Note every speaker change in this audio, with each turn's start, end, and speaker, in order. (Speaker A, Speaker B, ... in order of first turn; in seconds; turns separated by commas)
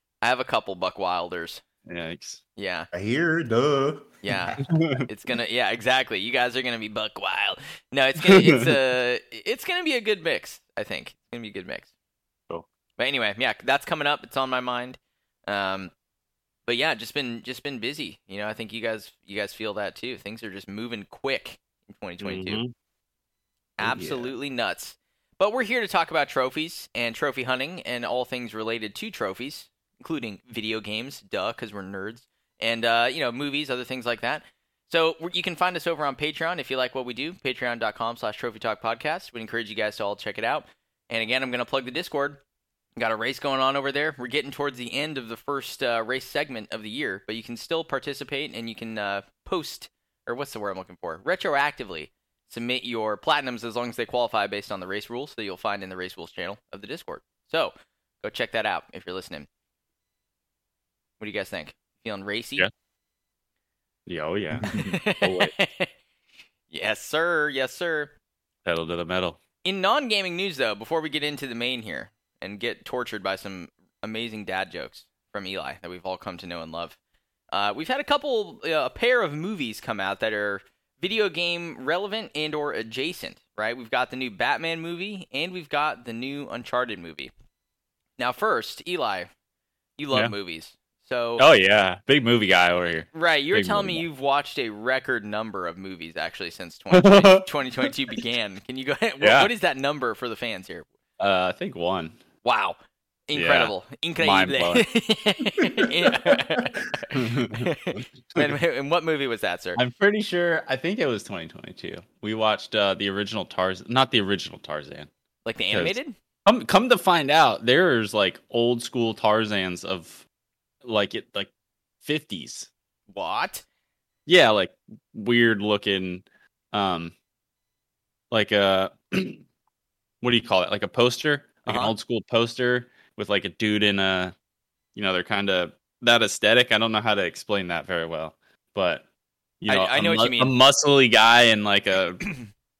Speaker A: 0.2-1.6, Speaker B: 1.9-2.4, Speaker A: 2.5-2.9, Speaker C: 2.9-4.6, Speaker A: 4.2-11.9, Speaker B: 4.7-5.0, Speaker B: 8.2-8.6, Speaker A: 13.0-15.9, Speaker A: 16.6-22.6, Speaker B: 22.2-22.7, Speaker A: 23.8-42.4, Speaker C: 23.8-24.3, Speaker A: 43.0-59.5, Speaker A: 61.2-62.7, Speaker B: 64.1-65.5, Speaker C: 64.6-65.0, Speaker A: 64.7-65.9, Speaker A: 66.7-68.1, Speaker B: 68.6-69.4, Speaker A: 69.6-77.0, Speaker A: 77.5-87.3, Speaker A: 88.2-89.3, Speaker A: 90.0-91.4, Speaker B: 91.4-94.0, Speaker A: 93.1-100.8, Speaker B: 96.9-98.2, Speaker B: 99.2-99.5, Speaker B: 101.2-102.2, Speaker A: 102.4-102.8, Speaker A: 103.3-109.8, Speaker B: 103.3-104.8, Speaker C: 105.8-106.9, Speaker B: 107.1-107.7, Speaker B: 109.8-115.1, Speaker A: 115.4-116.1, Speaker B: 115.7-120.2, Speaker B: 120.8-121.5, Speaker B: 122.0-122.7, Speaker A: 123.1-123.6, Speaker B: 124.2-127.1, Speaker B: 128.3-129.4, Speaker B: 130.2-134.3, Speaker A: 131.7-131.9, Speaker B: 134.9-139.0, Speaker B: 139.6-142.3, Speaker A: 139.7-140.5